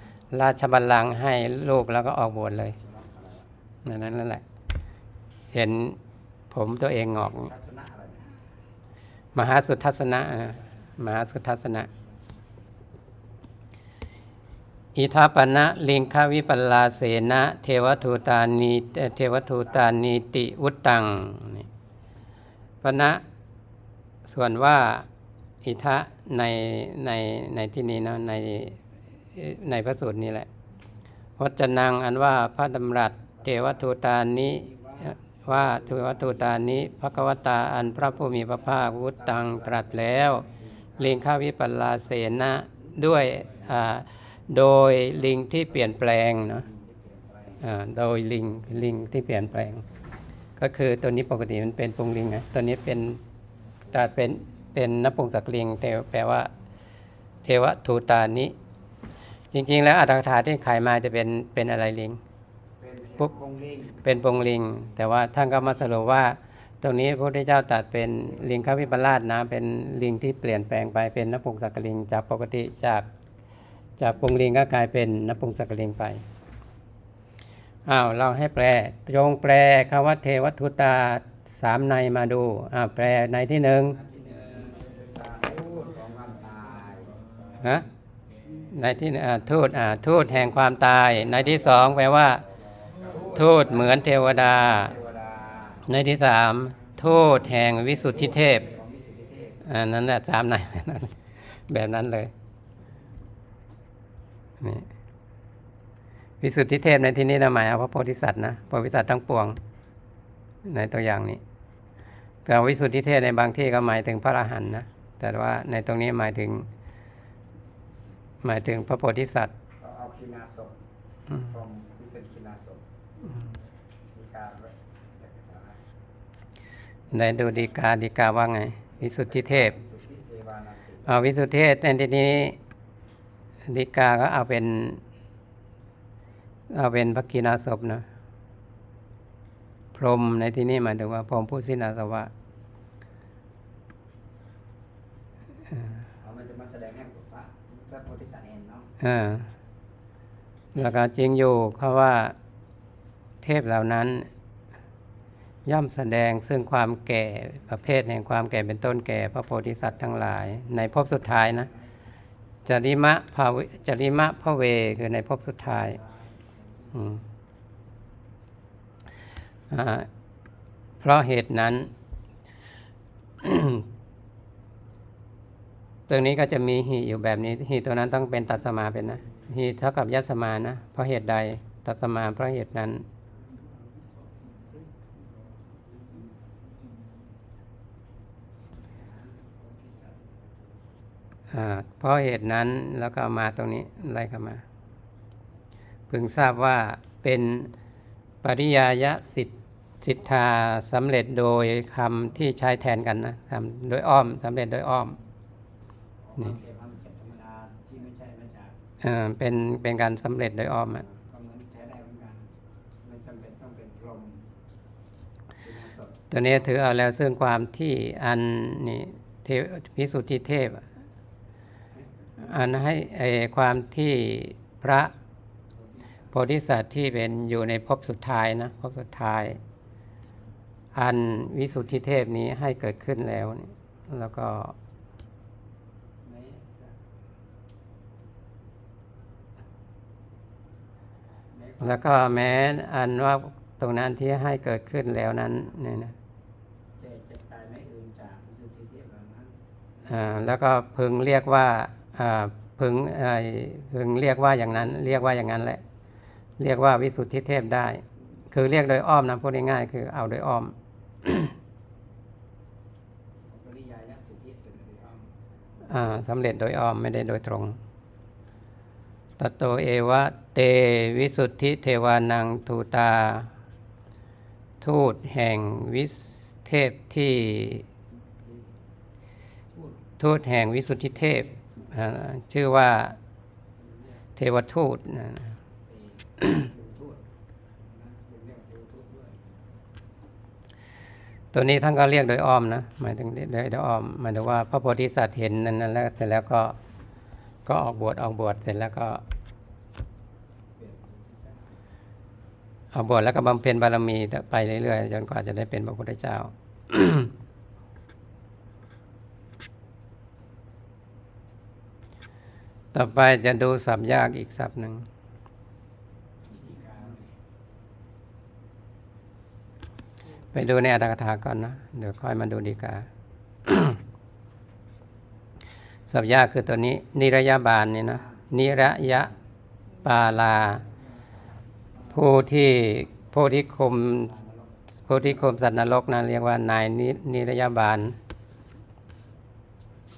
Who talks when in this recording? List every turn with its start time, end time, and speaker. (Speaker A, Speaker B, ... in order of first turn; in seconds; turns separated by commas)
Speaker A: 0.3-2.8, Speaker B: 2.8-3.5, Speaker A: 3.9-4.4, Speaker A: 5.5-6.0, Speaker A: 6.5-7.5, Speaker B: 7.4-8.5, Speaker A: 9.3-11.9, Speaker A: 14.9-21.7, Speaker A: 22.8-23.2, Speaker A: 24.2-25.1, Speaker A: 25.6-28.8, Speaker A: 29.4-30.5, Speaker A: 31.4-34.7, Speaker B: 33.4-33.9, Speaker B: 34.4-36.7, Speaker A: 35.4-40.5, Speaker B: 38.8-41.3, Speaker A: 41.0-46.6, Speaker B: 42.7-43.0, Speaker B: 45.9-47.7, Speaker A: 47.6-49.8, Speaker A: 50.6-53.2, Speaker A: 53.9-56.5, Speaker A: 57.4-58.5, Speaker A: 59.5-62.2, Speaker B: 62.8-64.0, Speaker A: 64.0-73.1, Speaker A: 74.0-76.2, Speaker A: 77.9-84.0, Speaker B: 83.9-87.3, Speaker A: 87.6-87.9, Speaker A: 88.7-92.5, Speaker B: 91.1-95.9, Speaker A: 93.3-95.0, Speaker A: 95.9-98.7, Speaker B: 97.5-99.7, Speaker A: 99.6-101.2, Speaker A: 101.7-102.3, Speaker A: 104.6-104.9, Speaker A: 106.4-109.6, Speaker A: 110.7-111.4, Speaker A: 112.5-116.7, Speaker A: 118.4-119.5, Speaker B: 119.8-120.8, Speaker B: 121.3-122.9, Speaker B: 124.0-125.8, Speaker A: 127.1-129.8, Speaker B: 127.1-127.6, Speaker B: 129.0-131.3, Speaker A: 131.1-132.6, Speaker A: 133.7-135.0, Speaker A: 136.7-138.1, Speaker A: 139.9-142.3, Speaker B: 146.1-148.9, Speaker A: 149.0-149.5, Speaker A: 150.7-152.3, Speaker A: 153.4-154.3, Speaker A: 155.7-161.7, Speaker B: 161.5-161.9, Speaker A: 162.7-166.0, Speaker B: 165.7-167.1, Speaker A: 166.9-167.2, Speaker A: 169.7-170.1, Speaker A: 171.0-171.9, Speaker A: 173.4-173.9, Speaker A: 176.1-183.1, Speaker B: 183.3-186.6, Speaker B: 188.7-191.0, Speaker A: 191.5-194.6, Speaker A: 196.1-197.7, Speaker A: 198.4-205.2, Speaker B: 206.2-208.8, Speaker A: 209.0-211.1, Speaker B: 211.0-212.5, Speaker B: 213.0-214.5, Speaker B: 215.6-216.3, Speaker A: 216.3-220.9, Speaker B: 221.9-222.8, Speaker A: 222.4-225.1, Speaker B: 225.7-226.3, Speaker A: 226.3-229.6, Speaker A: 230.9-234.8, Speaker B: 236.2-237.0, Speaker B: 241.5-242.6, Speaker A: 241.8-246.2, Speaker B: 247.0-250.3, Speaker A: 250.1-255.8, Speaker A: 256.6-261.5, Speaker B: 263.5-265.4, Speaker A: 265.8-267.8, Speaker A: 269.4-273.5, Speaker A: 274.8-277.9, Speaker B: 279.7-280.1, Speaker A: 280.2-283.2, Speaker B: 281.3-281.7, Speaker A: 284.4-285.5, Speaker B: 285.9-287.3, Speaker B: 287.8-289.6, Speaker A: 291.5-296.8, Speaker A: 297.7-299.2, Speaker B: 300.8-301.8, Speaker A: 302.9-307.3, Speaker A: 312.9-315.1, Speaker B: 316.4-317.4, Speaker A: 320.5-323.1, Speaker A: 323.7-324.0, Speaker A: 326.1-329.3, Speaker B: 328.1-328.5, Speaker A: 330.0-330.9, Speaker A: 332.1-334.3, Speaker B: 334.2-334.8, Speaker A: 335.1-338.2